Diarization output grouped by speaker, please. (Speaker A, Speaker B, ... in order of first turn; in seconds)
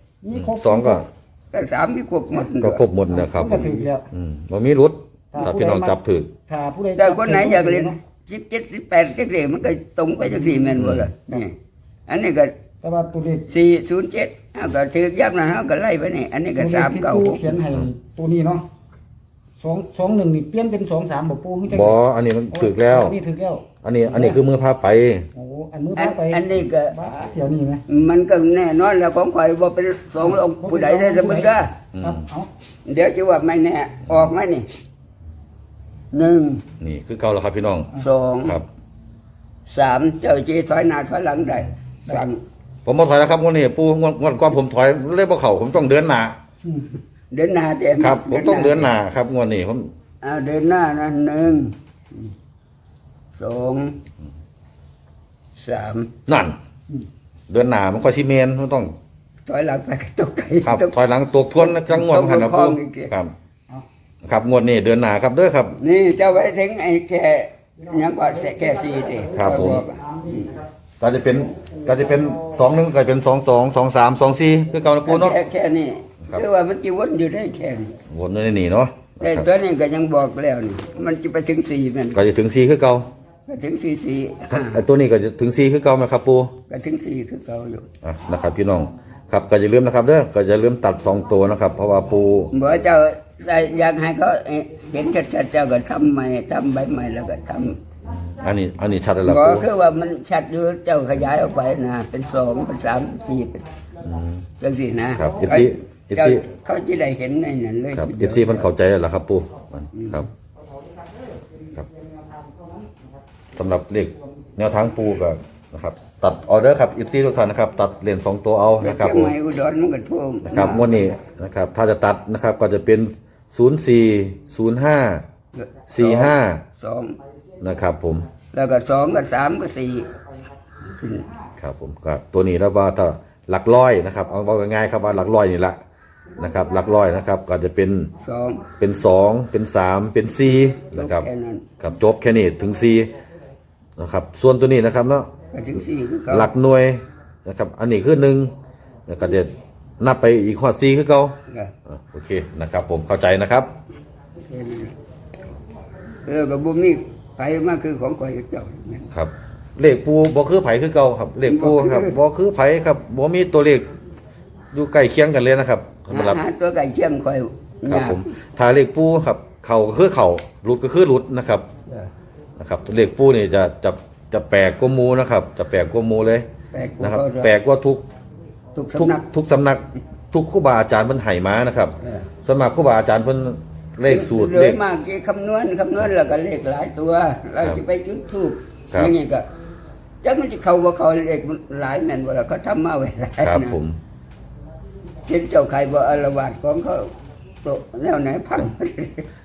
Speaker A: 0.2-1.1, 3.1-4.1, 5.3-8.0, 12.8-13.5, 16.5-18.6, 19.6-24.4, 25.3-27.8, 30.2-32.5, 46.6-46.9, 67.9-70.7, 71.6-72.3, 112.1-112.7
Speaker B: 0.3-1.0, 2.5-6.3, 10.8-11.1, 21.7-23.1, 23.8-25.3, 31.9-32.2, 36.8-37.9, 42.8-46.4, 48.0-49.9, 56.3-56.6, 57.5-58.9, 60.6-63.3, 64.2-65.8, 69.3-69.8, 71.0-75.4, 78.1-79.5, 82.1-83.1, 84.5-86.5, 88.0-92.5, 98.1-99.7, 104.0-104.4, 105.1-106.4, 107.9-110.3, 113.5-119.3, 120.4-125.2, 125.9-126.6, 127.6-128.3, 131.6-135.8, 136.4-138.1, 138.8-141.2, 141.8-143.1, 144.0-145.3, 146.3-148.5, 149.1-153.7, 159.1-163.9, 164.7-166.4, 167.9-171.7, 172.6-176.4, 177.0-178.0, 178.9-184.8, 193.4-194.0
Speaker C: 1.5-2.8, 3.5-3.8, 7.0-11.5, 12.1-12.5, 13.5-17.6, 25.9-26.9, 27.9-31.7, 32.8-34.7, 36.1-36.6, 38.0-38.6, 39.7-42.4, 47.3-48.9, 50.2-52.3, 53.4-54.0, 55.5-56.1, 59.5-60.9, 61.5-63.1, 65.8-70.5, 75.0-77.9, 79.2-82.2, 83.5-84.8, 86.7-87.8, 92.5-97.8, 99.2-103.6, 104.6-108.7, 110.0-110.2, 118.8-121.1, 125.5-127.2, 128.5-130.1, 130.9-131.3, 138.2-138.6, 140.8-141.6, 145.5-146.5, 154.5-154.9, 156.2-159.1, 161.4-162.2, 166.1-168.3, 176.7-177.5, 178.7-179.2, 182.0-182.3, 184.1-189.5, 190.2-193.8, 195.2-197.1, 197.6-199.3